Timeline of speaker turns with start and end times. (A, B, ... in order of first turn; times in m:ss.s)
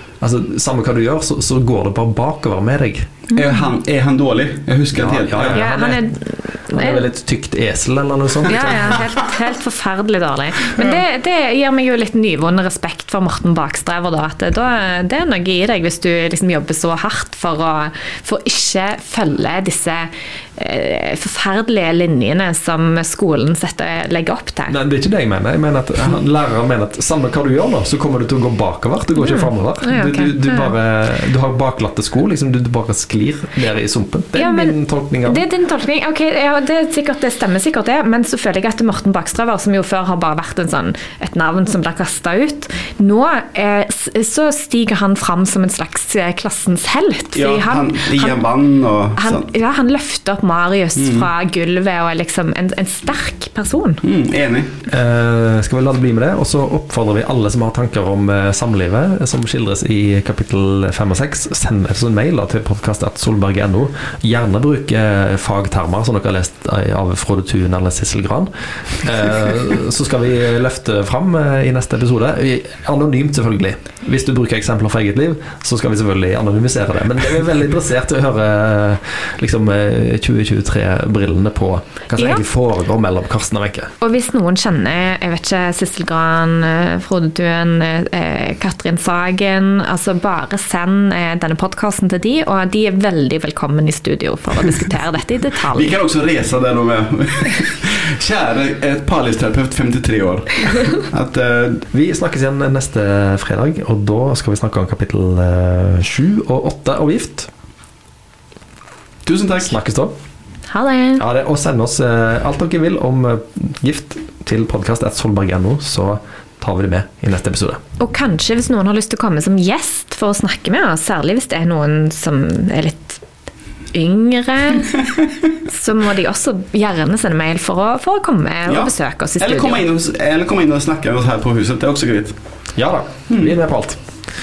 0:00.2-0:03.1 A
0:03.3-0:05.6 B
0:05.0-0:09.0 A
0:05.5-0:07.0 C
0:08.5-0:24.8 C
0:24.7-0:35.4 A
0:29.2-0:30.7 C
0:34.4-0:48.4 C
0:47.4-0:49.5 B
0:49.2-0:54.0 C
0:51.0-0:51.3 B
0:54.0-0:54.7 B
0:54.9-1:23.9 A
1:22.1-1:22.4 C
1:24.0-1:36.0 C
1:35.7-1:41.8 B
1:41.9-1:47.5 A
1:49.2-1:49.7 B
1:49.6-1:50.1 A
1:50.7-1:51.2 C
1:51.2-1:57.8 A
1:58.0-2:03.2 C
2:03.9-2:05.0 C
2:05.7-2:09.8 C
2:08.7-2:12.4 B
2:12.8-2:14.0 A
2:13.3-2:13.5 B